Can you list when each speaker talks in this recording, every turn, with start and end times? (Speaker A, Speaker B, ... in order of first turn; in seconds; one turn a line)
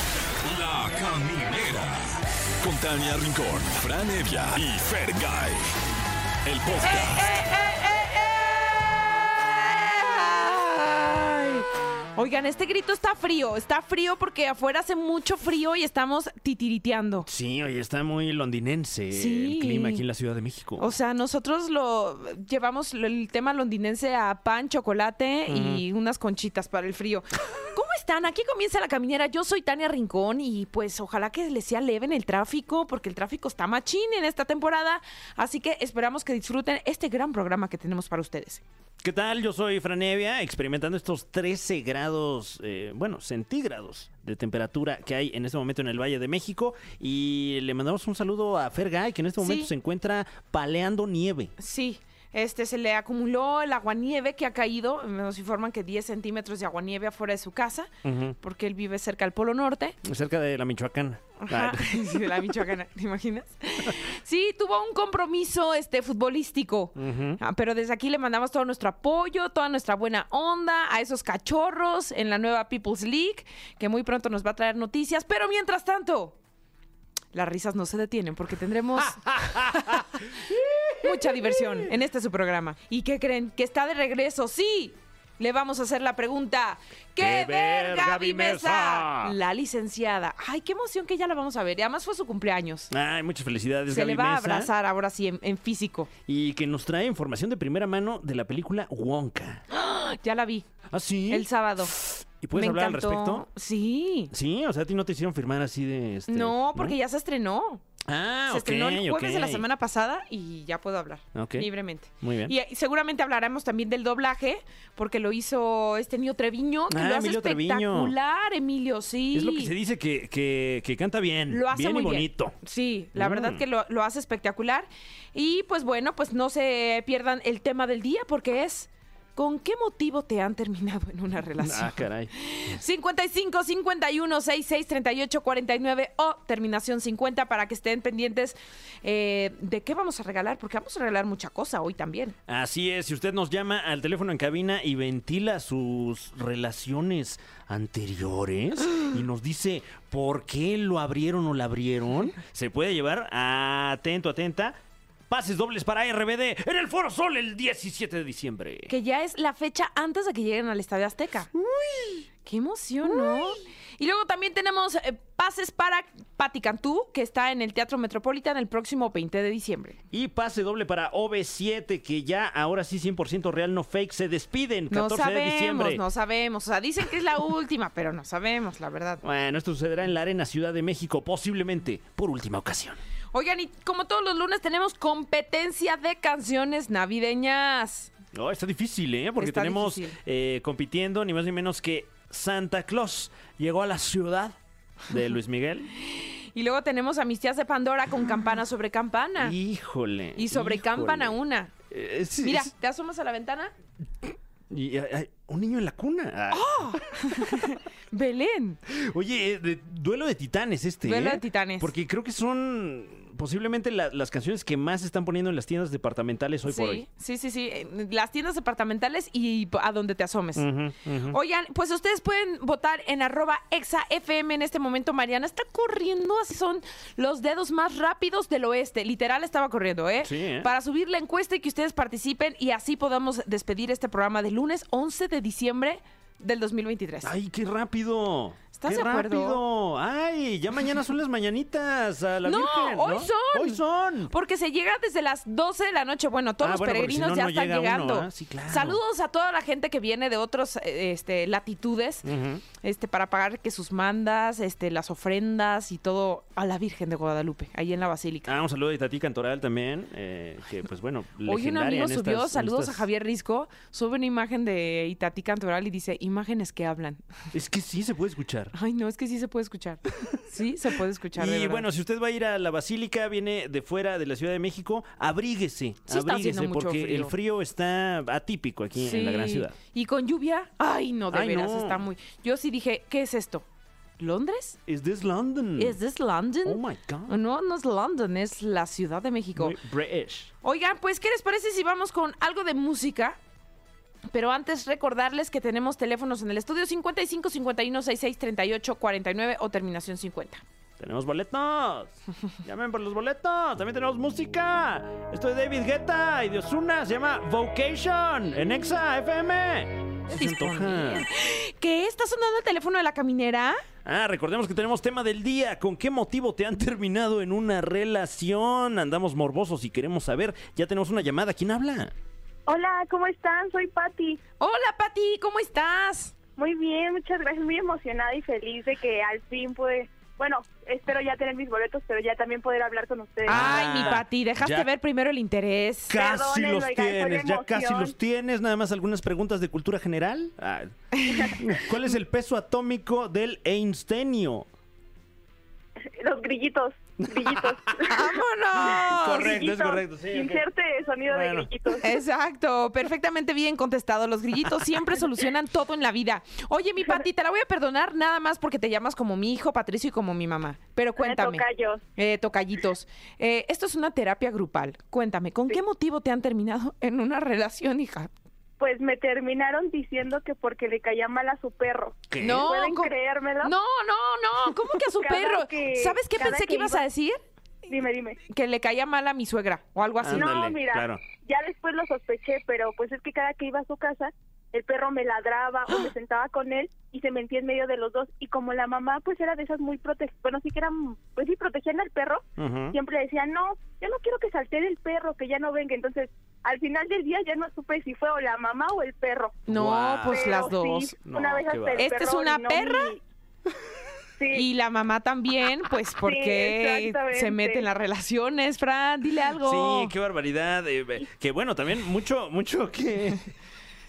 Speaker A: 0.4-5.7
Speaker A: 6.5-7.3
Speaker B: 6.8-17.3
Speaker C: 17.3-20.9
Speaker B: 19.1-20.0
Speaker B: 20.8-38.6
Speaker C: 25.5-25.8
Speaker C: 39.0-51.5
Speaker B: 49.4-49.7
Speaker B: 51.6-60.0
Speaker C: 58.0-58.4
Speaker C: 60.0-62.6
Speaker B: 61.4-76.4
Speaker C: 67.0-67.4
Speaker B: 77.3-80.0
Speaker C: 79.0-81.9
Speaker B: 81.0-92.9
Speaker C: 87.2-89.3
Speaker C: 92.9-94.7
Speaker B: 93.9-96.1
Speaker C: 96.3-99.6
Speaker B: 99.7-100.7
Speaker C: 100.9-103.5
Speaker B: 101.3-101.9
Speaker B: 102.5-104.3
Speaker C: 104.3-107.0
Speaker B: 106.3-107.8
Speaker C: 108.0-109.7
Speaker B: 108.5-119.7
Speaker C: 111.3-111.7
Speaker C: 112.2-112.5
Speaker C: 116.9-118.1
Speaker C: 119.3-122.6
Speaker B: 121.5-142.4
Speaker C: 123.2-123.6
Speaker C: 131.6-132.8
Speaker C: 142.5-154.8
Speaker C: 155.3-158.9
Speaker B: 158.9-161.5
Speaker C: 161.5-162.3
Speaker B: 162.4-170.0
Speaker C: 163.0-163.6
Speaker C: 170.1-176.0
Speaker B: 174.9-179.2
Speaker C: 179.2-183.0
Speaker B: 183.3-188.1
Speaker C: 188.3-195.9
Speaker B: 189.4-190.2
Speaker B: 196.1-199.6
Speaker C: 199.4-201.4
Speaker B: 200.4-201.7
Speaker C: 201.9-202.7
Speaker B: 202.4-203.7
Speaker C: 204.2-207.7
Speaker B: 206.5-208.8
Speaker C: 208.9-217.1
Speaker B: 211.1-211.9
Speaker B: 216.7-220.7
Speaker C: 220.6-221.4
Speaker B: 221.3-237.3
Speaker C: 230.2-230.7
Speaker C: 237.2-244.3
Speaker B: 238.7-239.6
Speaker B: 242.4-258.5
Speaker C: 246.6-249.0
Speaker C: 252.2-252.6
Speaker C: 258.5-263.1
Speaker B: 261.5-267.5
Speaker C: 267.5-268.7
Speaker B: 268.7-271.9
Speaker C: 271.3-279.8
Speaker B: 276.1-277.3
Speaker B: 279.0-283.6
Speaker C: 281.3-282.0
Speaker B: 284.2-284.8
Speaker C: 284.9-286.0
Speaker B: 285.8-289.8
Speaker C: 286.6-287.3
Speaker C: 289.6-290.5
Speaker B: 290.6-293.4
Speaker B: 294.3-300.6
Speaker C: 301.0-311.3
Speaker B: 310.3-313.8
Speaker C: 314.1-322.1
Speaker D: 322.7-324.4
Speaker B: 324.6-326.3
Speaker D: 326.6-334.1
Speaker B: 333.5-336.1
Speaker C: 333.5-334.9
Speaker C: 336.1-344.7
Speaker D: 336.1-338.1
Speaker B: 341.1-341.6
Speaker D: 346.2-348.4
Speaker C: 347.2-348.2
Speaker B: 348.1-349.6
Speaker C: 348.8-350.6
Speaker D: 349.2-352.1
Speaker C: 351.3-351.7
Speaker B: 352.0-361.6
Speaker D: 361.2-362.0
Speaker B: 362.2-368.3
Speaker D: 368.8-373.7
Speaker C: 372.3-372.7
Speaker B: 372.4-377.4
Speaker D: 375.2-377.0
Speaker D: 377.9-378.4
Speaker B: 378.5-380.5
Speaker C: 380.2-381.2
Speaker D: 380.3-399.6
Speaker C: 392.6-393.0
Speaker B: 399.7-401.1
Speaker C: 399.7-402.1
Speaker D: 400.3-403.2
Speaker B: 402.0-403.2
Speaker D: 404.4-404.7
Speaker B: 404.5-410.1
Speaker D: 406.2-407.9
Speaker C: 409.6-413.5